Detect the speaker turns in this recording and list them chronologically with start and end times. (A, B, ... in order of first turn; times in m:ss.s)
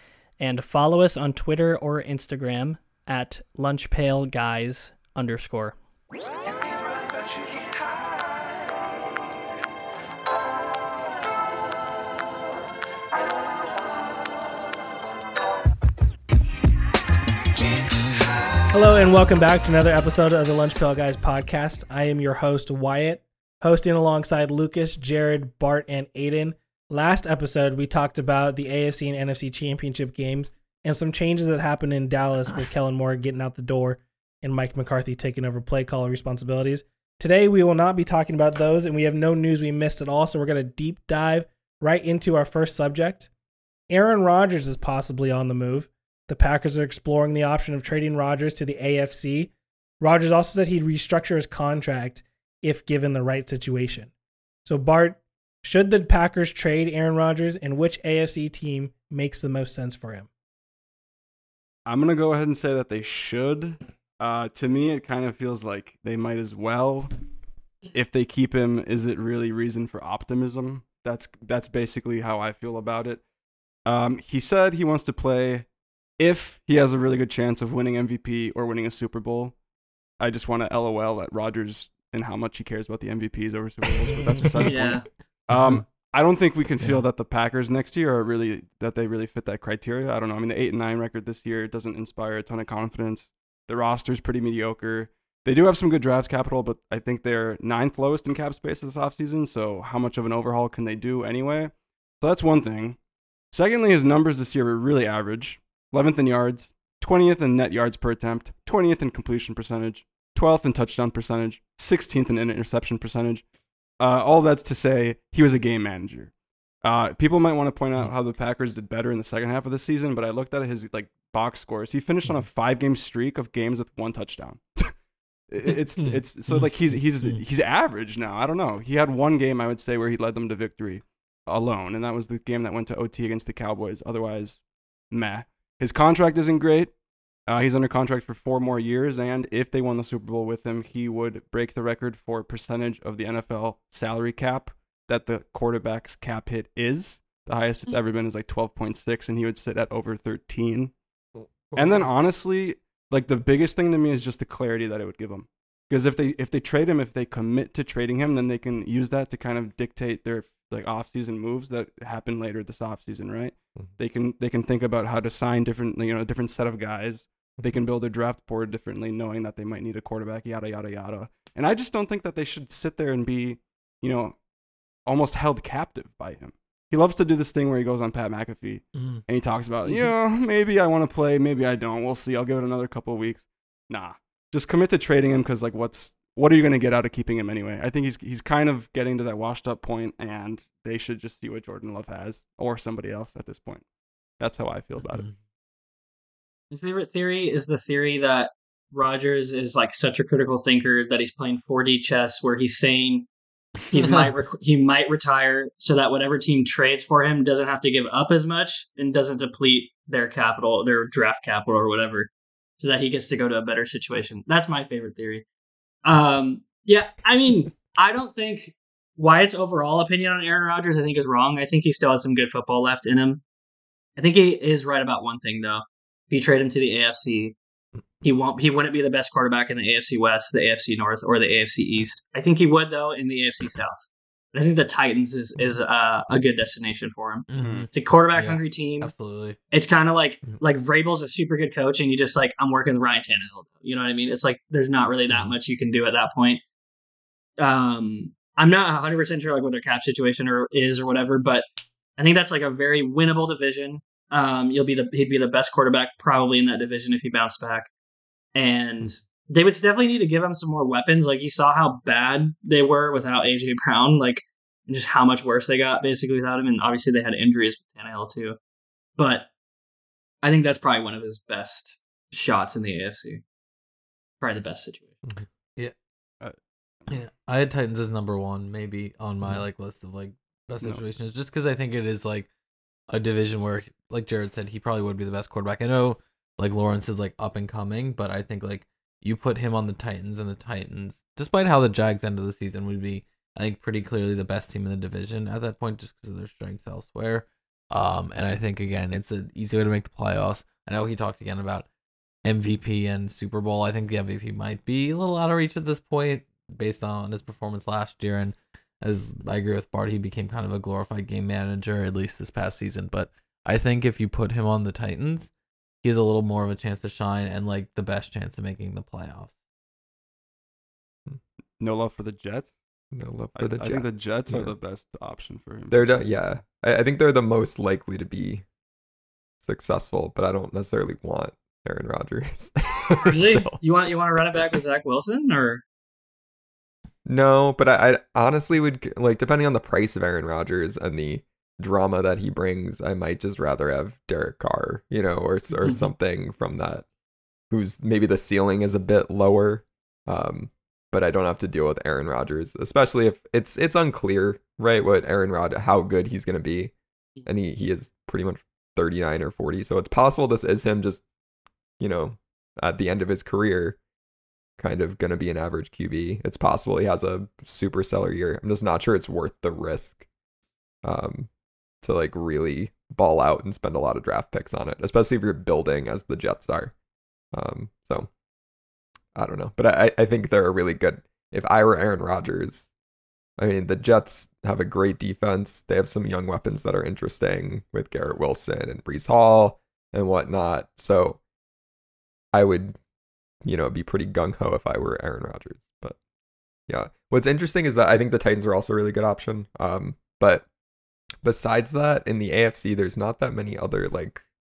0:00.4-0:05.8 A
0:18.7-0:43.3 B
0:43.9-0:54.1 B
0:54.6-1:00.3 B
1:01.9-1:07.1 C
1:07.9-1:13.2 C
1:13.9-1:19.6 C
1:20.2-1:43.0 C
1:24.2-1:24.7 D
1:24.6-1:25.1 A
1:25.5-1:25.8 D
1:43.5-1:53.4 C
1:54.0-2:05.0 C
2:05.5-2:17.0 C
2:06.5-2:07.4 D
2:17.5-2:30.9 C
2:31.7-2:54.4 C
2:55.1-3:13.8 C
2:59.0-2:59.2 D
3:14.4-3:15.3 C
3:16.7-3:23.3 A
3:23.9-3:35.4 A
3:23.9-3:24.3 D
3:36.0-3:43.4 A
3:44.2-3:47.6 A
3:48.2-3:54.0 A
3:54.5-3:59.1 A
3:57.5-3:59.6 D
3:57.6-3:57.9 C
3:59.7-4:06.6 A
4:07.6-4:11.6 A
4:12.2-4:17.9 A
4:18.6-4:28.6 A
4:29.2-4:29.5 A
4:30.4-4:33.4 A
4:34.4-4:35.2 A
4:37.1-4:42.5 D
4:43.1-5:01.9 D
5:02.4-5:15.5 D
5:16.0-5:19.6 D
5:21.8-5:22.7 C
5:23.1-5:24.7 E
5:23.6-5:26.2 C
5:25.9-5:28.6 E
5:29.6-5:33.8 E
5:33.2-5:35.8 A
5:37.3-5:47.1 E
5:45.8-5:46.1 A
5:47.7-5:56.9 E
5:57.4-6:01.2 E
6:02.0-6:04.0 E
6:04.8-6:10.2 E
6:11.0-6:11.5 E
6:12.0-6:16.9 E
6:17.5-6:18.3 E
6:19.4-6:22.9 E
6:23.6-6:31.4 E
6:32.5-6:33.0 E
6:33.6-6:36.2 E
6:36.9-6:40.7 E
6:41.4-6:44.4 E